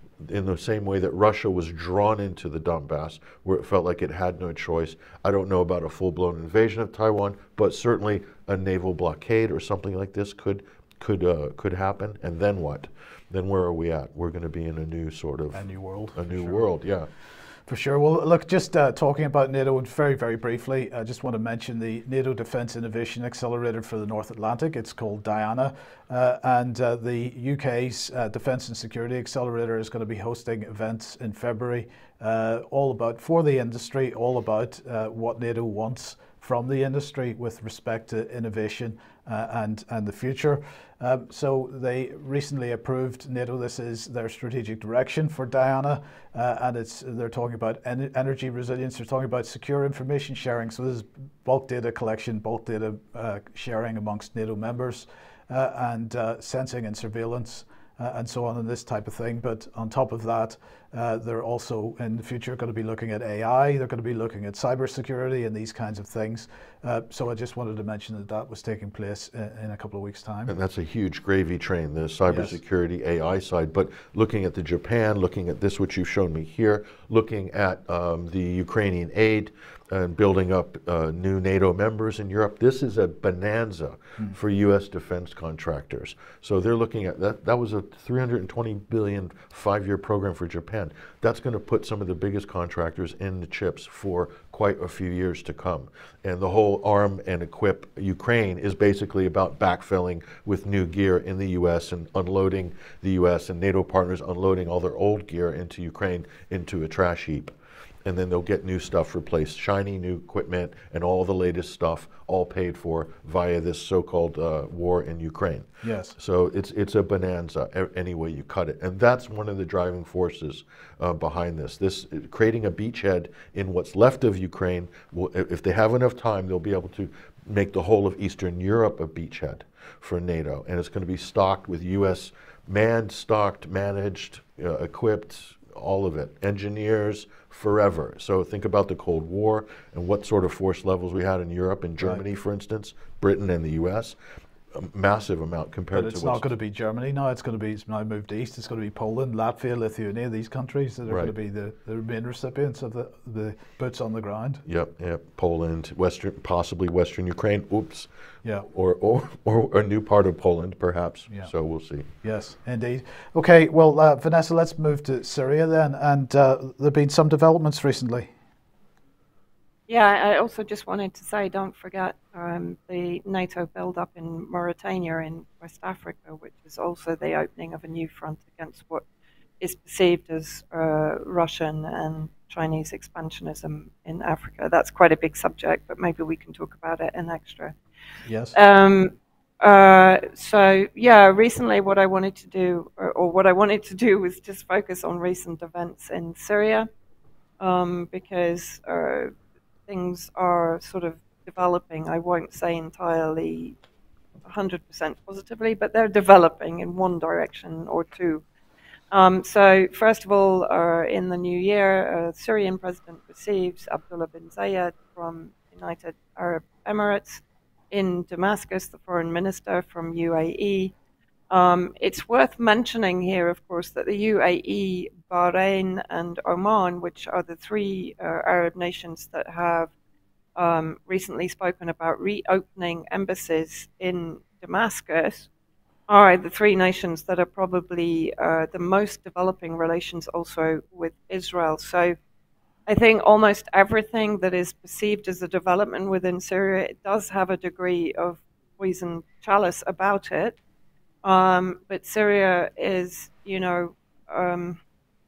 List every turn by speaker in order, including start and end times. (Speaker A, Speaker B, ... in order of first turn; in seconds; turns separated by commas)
Speaker A: 0.2-17.1, Speaker B: 15.5-16.6, Speaker B: 17.7-70.5, Speaker A: 70.5-107.5, Speaker B: 72.3-72.6, Speaker A: 108.0-144.2, Speaker B: 115.8-116.2, Speaker A: 144.7-146.5, Speaker B: 145.9-154.6, Speaker A: 151.1-151.3, Speaker A: 154.7-158.1, Speaker B: 158.4-158.7, Speaker A: 158.7-162.1, Speaker B: 162.2-168.3, Speaker C: 169.9-179.1, Speaker C: 179.6-187.8, Speaker B: 188.3-188.6, Speaker C: 188.5-196.9, Speaker C: 197.6-199.3, Speaker C: 199.9-203.8, Speaker C: 204.4-208.4, Speaker C: 209.1-220.9, Speaker C: 221.5-229.9, Speaker C: 230.6-235.5, Speaker C: 236.1-242.2, Speaker C: 242.9-250.6, Speaker C: 251.2-254.8